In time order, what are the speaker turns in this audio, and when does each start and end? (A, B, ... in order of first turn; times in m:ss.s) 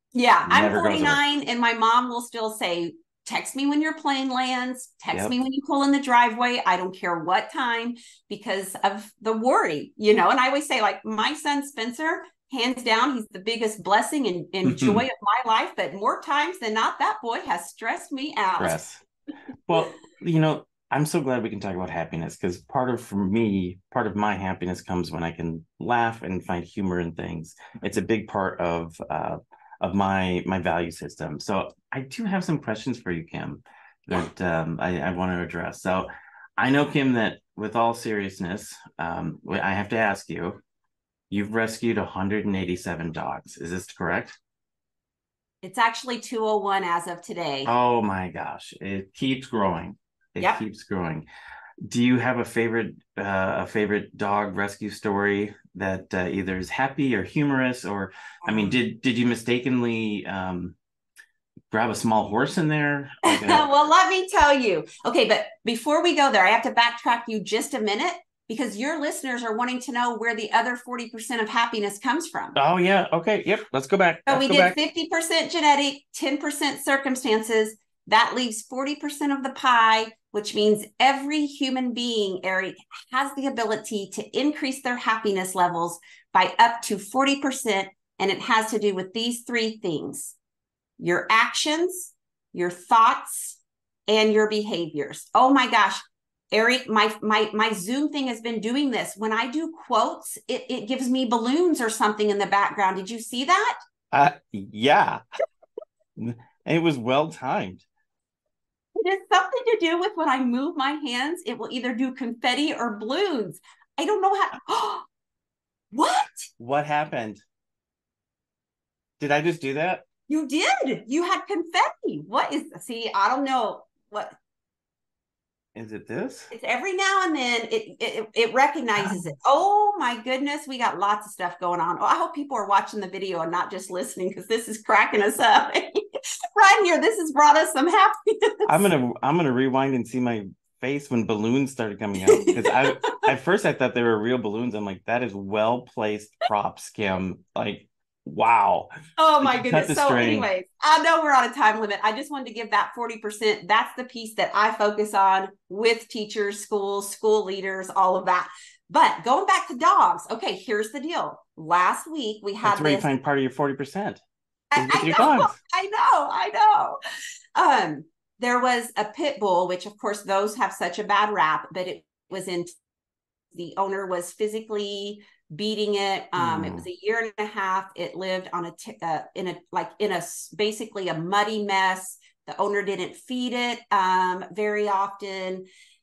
0:00.2-0:18.8 A
0:00.4-0:01.2 B
0:14.7-0:15.0 B
0:18.6-0:19.0 B
0:19.7-0:40.6 B
0:41.3-0:44.4 B
0:45.6-0:47.7 A
0:47.6-0:51.3 B
0:51.9-1:00.8 B
0:58.5-0:58.8 A
1:01.7-1:03.6 B
1:03.2-1:12.6 A
1:12.6-1:14.8 B
1:14.3-1:30.4 A
1:31.0-1:43.8 A
1:44.1-1:45.2 B
1:46.2-1:47.8 B
1:49.0-1:55.1 A
1:55.9-1:56.5 A
1:56.6-1:57.4 B
1:59.2-2:00.0 B
2:00.3-2:04.4 A
2:05.8-2:06.5 B
2:06.5-2:16.0 A
2:16.6-2:18.9 A
2:18.7-2:28.9 B
2:22.3-2:23.2 A
2:29.2-2:43.1 A
2:29.4-2:30.5 B
2:42.6-2:44.2 B
2:44.7-2:47.0 A
2:44.8-2:45.6 B
2:47.6-2:52.7 A
2:53.5-3:05.7 A
2:56.4-2:56.9 B